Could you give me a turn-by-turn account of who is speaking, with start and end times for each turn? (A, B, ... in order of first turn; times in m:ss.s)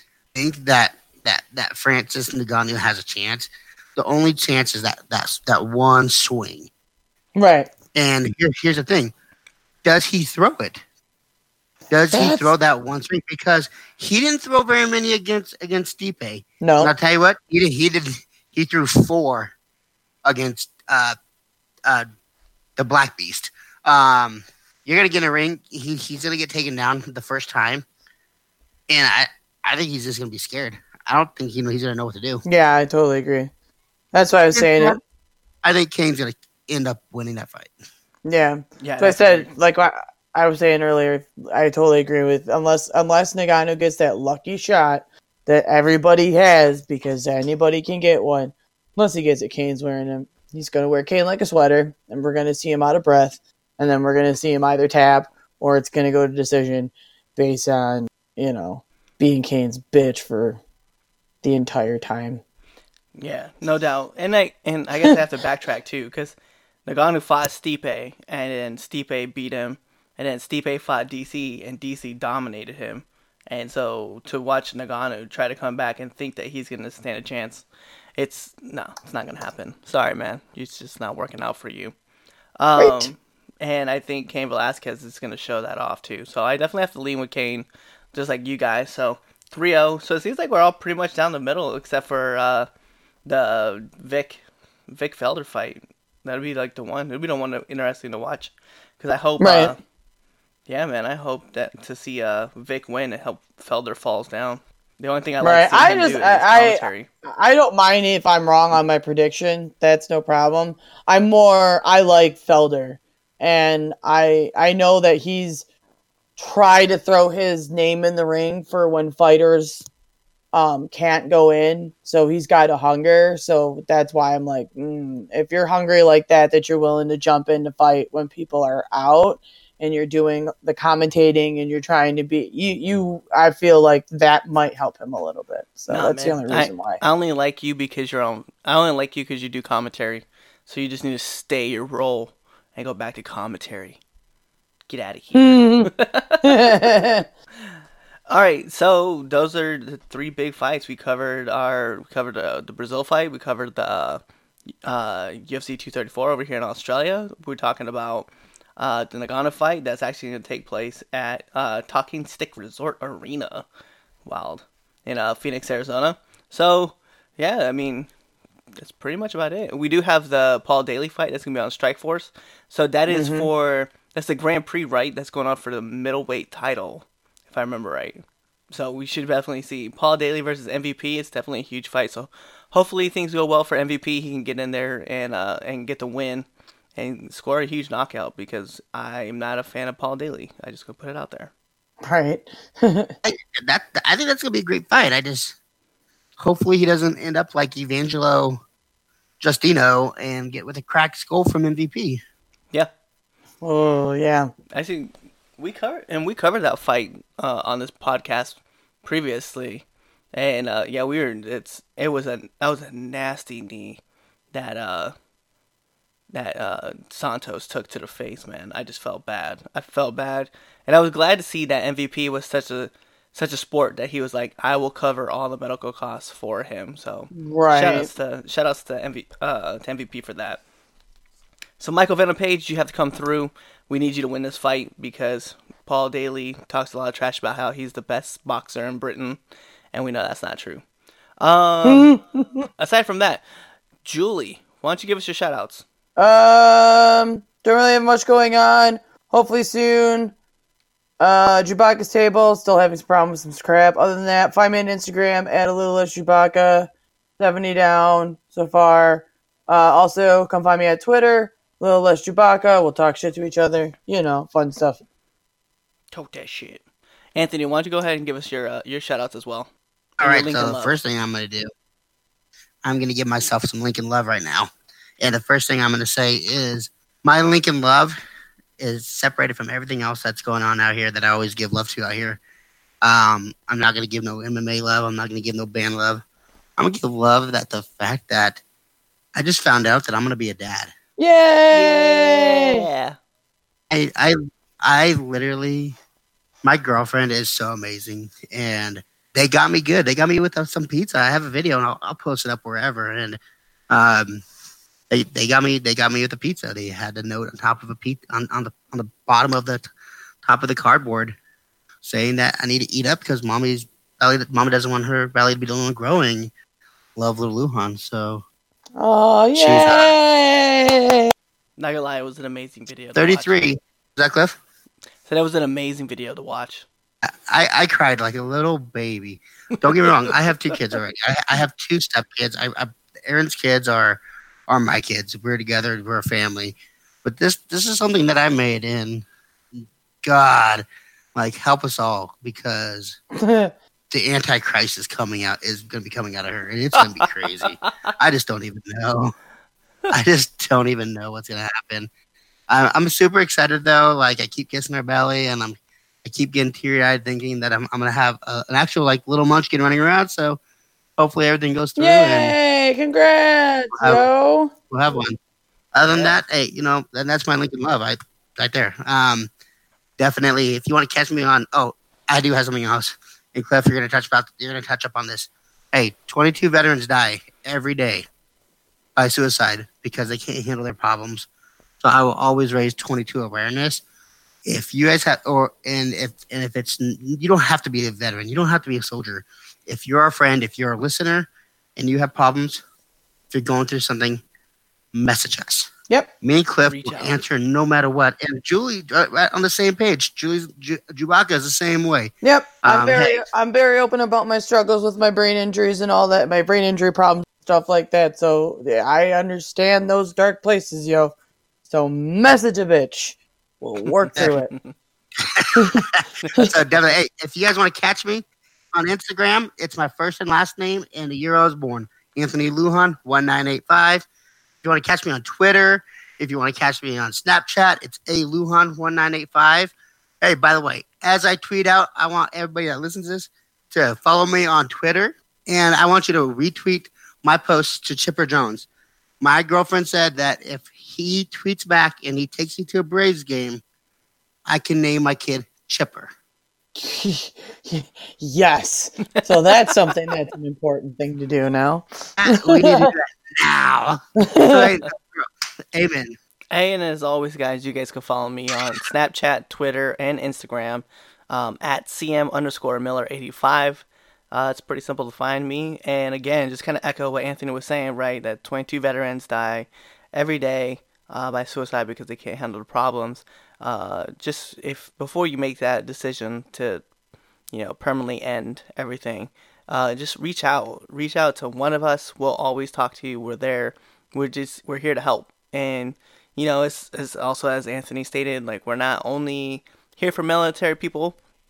0:00.3-0:06.7 A
0:07.4-0:07.7 B
0:07.9-0:09.1 A
0:09.8-0:10.8 A
0:11.9-0:19.5 A
0:12.1-0:12.5 B
0:16.6-0:16.9 B
0:20.2-0:21.2 A
0:22.8-0:27.8 A
0:28.9-0:32.4 A
0:32.4-0:33.5 B
0:34.1-0:35.0 B
0:34.5-0:35.0 A
0:35.6-0:37.7 A
0:38.2-1:00.6 B
0:38.8-0:39.5 C
1:01.4-1:02.4 B
1:03.2-1:06.3 C
1:06.8-1:17.6 C
1:18.2-1:21.9 C
1:22.6-1:32.7 C
1:22.8-1:23.1 B
1:33.2-1:39.8 C
1:39.4-1:39.7 B
1:40.7-1:47.1 C
1:45.4-1:55.6 B
1:56.4-1:59.8 B
2:00.5-2:17.0 B
2:15.9-2:24.0 C
2:24.9-2:27.0 C
2:25.3-2:25.9 B
2:26.4-2:27.2 B
2:28.3-2:34.2 C
2:34.8-2:43.6 C
2:44.2-2:48.1 C
2:48.8-3:11.5 C
2:53.1-2:53.5 B
3:12.0-3:13.1 B
3:13.2-3:15.5 A
3:16.4-3:18.6 A
3:19.4-3:22.2 A
3:23.6-3:24.5 B
3:24.7-3:34.0 C
3:34.5-3:35.1 C
3:36.3-3:50.6 C
3:47.3-3:48.1 B
3:51.8-3:59.4 C
3:59.9-4:00.8 C
4:01.4-4:02.1 C
4:01.8-4:02.7 B
4:02.8-4:03.4 C
4:04.0-4:05.8 C
4:06.2-4:10.3 B
4:11.2-4:25.0 B
4:26.1-4:26.8 C
4:27.3-4:30.9 C
4:30.2-4:31.7 A
4:32.8-4:38.2 A
4:38.8-4:42.4 A
4:43.0-4:46.2 A
4:46.8-4:48.6 A
4:49.3-4:50.9 A
4:51.2-4:52.8 B
4:51.7-4:53.2 C
4:53.9-4:55.9 A
4:56.6-5:03.4 A
5:03.9-5:04.4 A
5:05.1-5:09.9 A
5:10.4-5:11.4 A
5:12.0-5:16.5 A
5:17.2-5:18.4 A
5:19.0-5:21.3 B
5:19.6-5:20.1 A
5:21.8-5:23.7 C
5:23.2-5:24.6 A
5:25.2-5:26.8 C
5:27.2-5:43.2 A
5:29.8-5:30.8 C
5:43.3-5:43.7 B
5:44.1-5:49.3 A
5:47.1-5:48.1 C
5:50.1-5:52.1 A
5:52.7-6:00.6 A
6:01.2-6:02.6 A
6:02.0-6:04.7 B
6:03.9-6:04.2 A
6:04.9-6:05.4 A
6:05.9-6:09.5 A
6:06.1-6:06.4 C
6:10.2-6:18.3 A
6:19.2-6:21.5 A
6:22.0-6:24.0 A
6:24.6-6:32.8 A
6:33.5-6:34.4 A
6:35.1-6:43.5 A
6:36.8-6:37.4 C
6:42.4-6:51.3 B
6:51.9-6:54.7 B
6:54.1-6:54.9 C
6:55.4-7:04.3 A
6:55.7-6:56.0 B
6:56.4-6:56.7 C
7:04.8-7:18.9 A
7:19.4-7:23.8 A
7:24.6-7:26.3 A
7:26.9-7:33.1 B
7:29.3-7:30.1 C
7:32.4-7:36.4 A
7:34.4-7:34.9 B
7:36.7-7:57.0 C
7:57.7-8:11.4 C